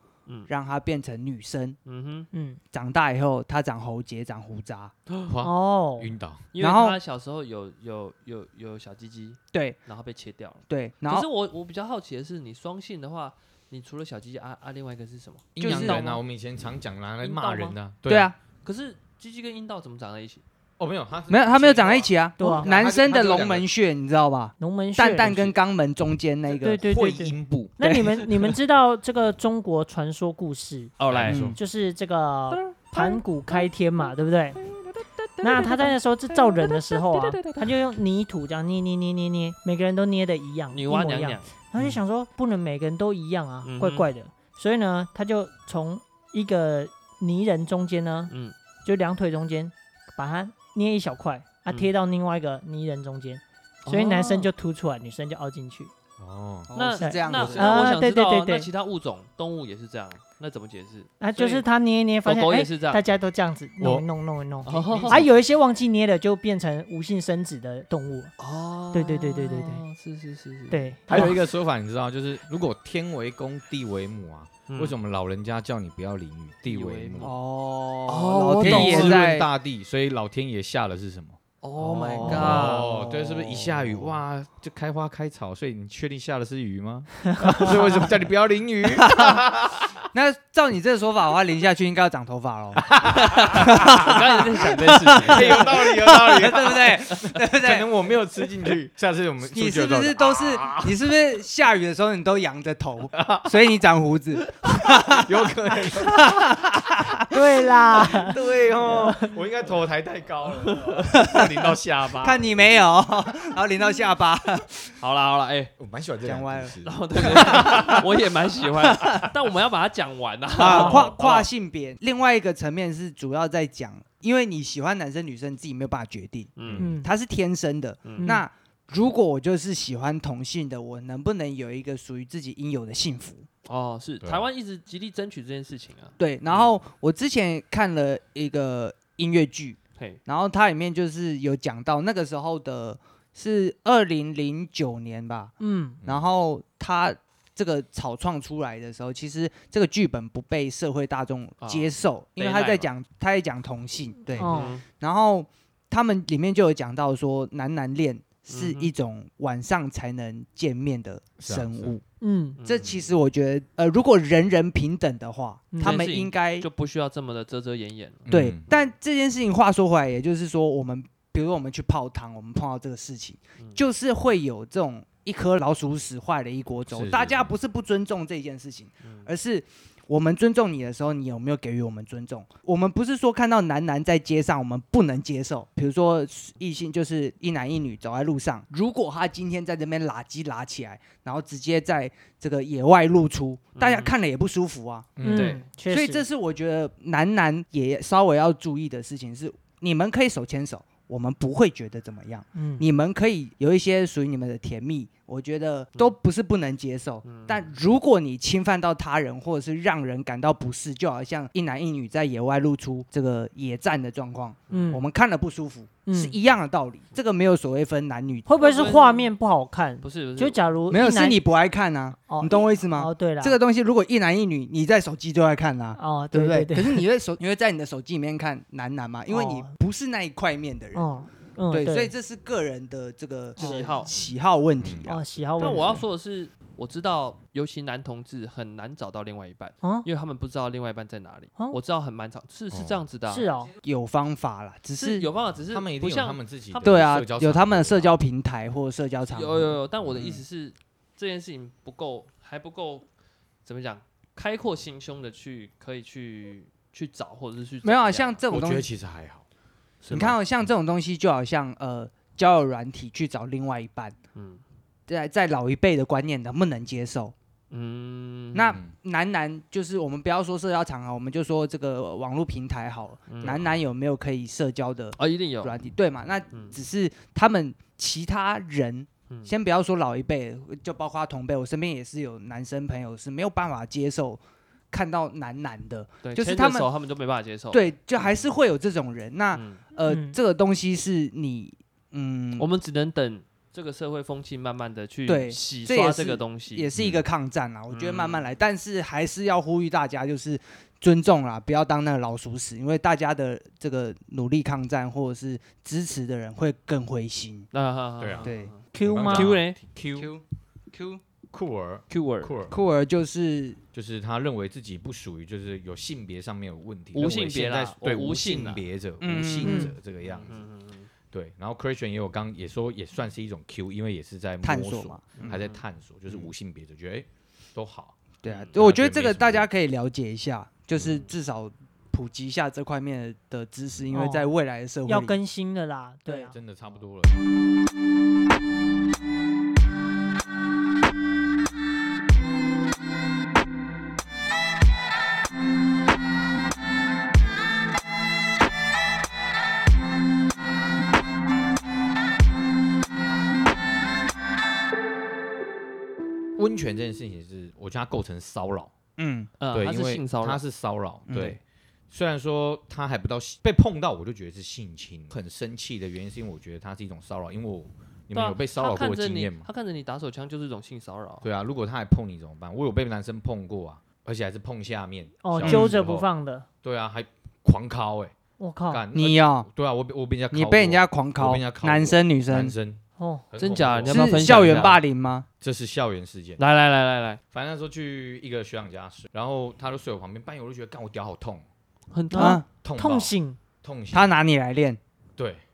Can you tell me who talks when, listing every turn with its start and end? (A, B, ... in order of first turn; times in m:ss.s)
0:00.5-0:01.8 A
0:01.8-0:02.3 B
0:02.3-0:02.6 C
0:02.7-0:04.9 A
0:05.3-0:06.5 D
0:05.4-0:06.1 C
0:06.5-0:15.6 B
0:06.6-0:07.0 A
0:09.5-0:09.8 A
0:10.7-0:11.3 A
0:15.6-0:18.3 D
0:15.6-0:16.0 A
0:15.6-0:16.2 C
0:17.2-0:17.8 B
0:18.1-0:18.3 A
0:18.6-0:20.4 B
0:20.8-0:23.7 D
0:21.3-0:26.8 A
0:22.4-0:22.7 C
0:24.6-0:25.5 C
0:26.6-0:34.6 C
0:26.7-0:27.7 D
0:31.0-0:31.4 B
0:31.1-0:31.6 D
0:31.3-0:31.6 A
0:32.5-0:33.6 B
0:34.6-0:37.7 B
0:35.4-0:48.3 C
0:40.7-0:41.6 B
0:43.6-0:44.1 B
0:48.3-0:48.5 B
0:48.8-0:55.9 C
0:53.8-0:54.5 B
0:56.2-0:56.7 D
0:56.7-0:57.8 A
0:56.7-1:01.6 B
0:57.0-0:58.7 C
0:57.3-0:57.6 D
1:01.2-1:08.3 C
1:02.2-1:03.0 B
1:03.8-1:04.0 D
1:04.6-1:05.2 B
1:04.8-1:05.3 D
1:08.4-1:11.3 B
1:08.9-1:09.8 C
1:10.7-1:11.3 C
1:11.1-1:17.3 D
1:14.7-1:14.9 B
1:16.7-1:17.4 B
1:17.2-1:19.5 A
1:18.1-1:19.2 B
1:18.6-1:21.4 D
1:18.6-1:18.9 C
1:21.6-1:23.0 B
1:21.8-1:24.1 A
1:22.2-1:30.0 D
1:29.0-1:29.4 A
1:30.1-1:37.9 A
1:32.8-1:34.1 D
1:33.1-1:35.7 B
1:35.2-1:41.1 D
1:39.4-1:48.1 A
1:43.1-1:43.6 D
1:44.5-1:47.2 D
1:47.3-1:48.4 C
1:48.0-1:52.7 D
1:49.0-1:49.3 C
1:52.2-1:54.9 A
1:55.0-1:55.7 B
1:55.8-1:58.0 D
1:56.2-1:58.0 A
1:56.8-2:01.5 B
2:00.6-2:13.5 A
2:00.6-2:01.1 C
2:06.6-2:06.9 B
2:06.6-2:06.9 D
2:06.8-2:07.1 C
2:08.2-2:08.4 C
2:13.6-2:16.7 B
2:16.2-2:25.5 A
2:25.6-2:26.0 C
2:26.0-2:42.0 A
2:31.6-2:32.9 B
2:34.4-2:34.8 C
2:34.4-2:34.8 B
2:38.5-2:38.9 B
2:41.4-2:41.9 D
2:42.2-2:42.6 C
2:42.6-2:43.1 B
2:42.6-2:46.7 A
2:45.7-2:46.1 C
2:45.8-2:48.9 B
2:48.2-2:48.6 D
2:48.3-3:15.2 A
2:56.9-2:57.5 D
2:59.0-2:59.3 B
3:13.8-3:14.1 B
3:15.2-3:15.6 D
3:15.2-3:16.2 C
3:15.2-3:15.6 B
3:15.9-3:38.5 A
3:22.5-3:22.8 C
3:27.2-3:27.7 B
3:34.7-3:35.0 B
3:34.7-3:35.0 C
3:36.0-3:36.4 C
3:38.4-3:41.4 C
3:38.6-3:39.3 B
3:40.0-3:40.6 B
3:40.9-3:51.1 A
3:42.3-3:43.6 C
3:46.0-3:47.0 C
3:49.3-3:49.7 C
3:50.9-3:52.1 C
3:51.7-3:55.2 A
3:53.6-3:53.9 C
3:53.6-3:54.1 B
3:54.8-3:55.1 D
3:55.0-3:56.0 C
3:55.6-4:03.5 B
3:59.8-4:00.1 C
4:02.7-4:03.0 D
4:03.3-4:03.7 C
4:03.8-4:05.3 A
4:05.0-4:07.1 B
4:05.7-4:08.2 D
4:06.8-4:09.8 A
4:09.3-4:13.1 B
4:10.1-4:10.4 D
4:13.6-4:18.4 B
4:17.8-4:18.9 A
4:18.5-4:19.4 D
4:20.0-4:20.4 B
4:20.1-4:24.2 A
4:24.3-4:24.6 B
4:25.1-4:27.3 A
4:27.7-4:28.8 B
4:28.5-4:44.4 A
4:33.3-4:33.6 B
4:33.4-4:33.7 D
4:35.2-4:35.8 B
4:44.9-4:46.9 A
4:46.2-4:48.4 B
4:47.7-4:52.7 A
4:49.5-4:49.8 B
4:50.0-4:50.4 C
4:52.6-4:56.9 B
4:55.3-5:07.7 A
4:56.9-4:57.2 D
4:57.9-4:58.5 B
5:07.7-5:09.8 B
5:08.2-5:10.3 D
5:08.4-5:08.7 A
5:08.9-5:09.6 C
5:10.1-5:11.2 A
5:11.5-5:12.8 D
5:12.1-5:12.6 B
5:12.7-5:13.8 A
5:13.9-5:20.6 D
5:17.1-5:18.8 B
5:19.2-5:19.9 A
5:19.6-5:19.9 C
5:20.2-5:21.1 B
5:21.3-5:28.2 D
5:24.6-5:25.4 A
5:25.4-5:25.8 B
5:28.4-5:35.4 A
5:28.5-5:28.7 B
5:28.7-5:29.7 D
5:34.1-5:34.5 C
5:35.0-5:36.5 C
5:36.5-5:37.4 D
5:56.6-5:58.9 D
5:59.2-5:59.5 A
5:59.6-6:00.6 B
5:59.7-6:01.6 D
6:01.3-6:01.6 A
6:02.1-6:09.7 D
6:08.3-6:11.4 B
6:11.4-6:16.3 D
6:15.4-6:16.6 C
6:15.6-6:15.9 A
6:16.8-6:18.3 D
6:18.6-6:19.0 C
6:18.9-6:25.0 D
6:19.1-6:19.7 A
6:20.5-6:22.7 A
6:23.2-6:23.4 C
6:23.6-6:25.0 B
6:24.1-6:25.4 A
6:25.6-6:26.6 D
6:26.6-6:27.4 B
6:27.5-6:31.6 D
6:32.1-6:32.6 B
6:32.3-6:33.6 C
6:32.3-6:32.6 A
6:32.8-6:34.3 D
6:34.1-6:35.0 A
6:35.4-6:35.6 D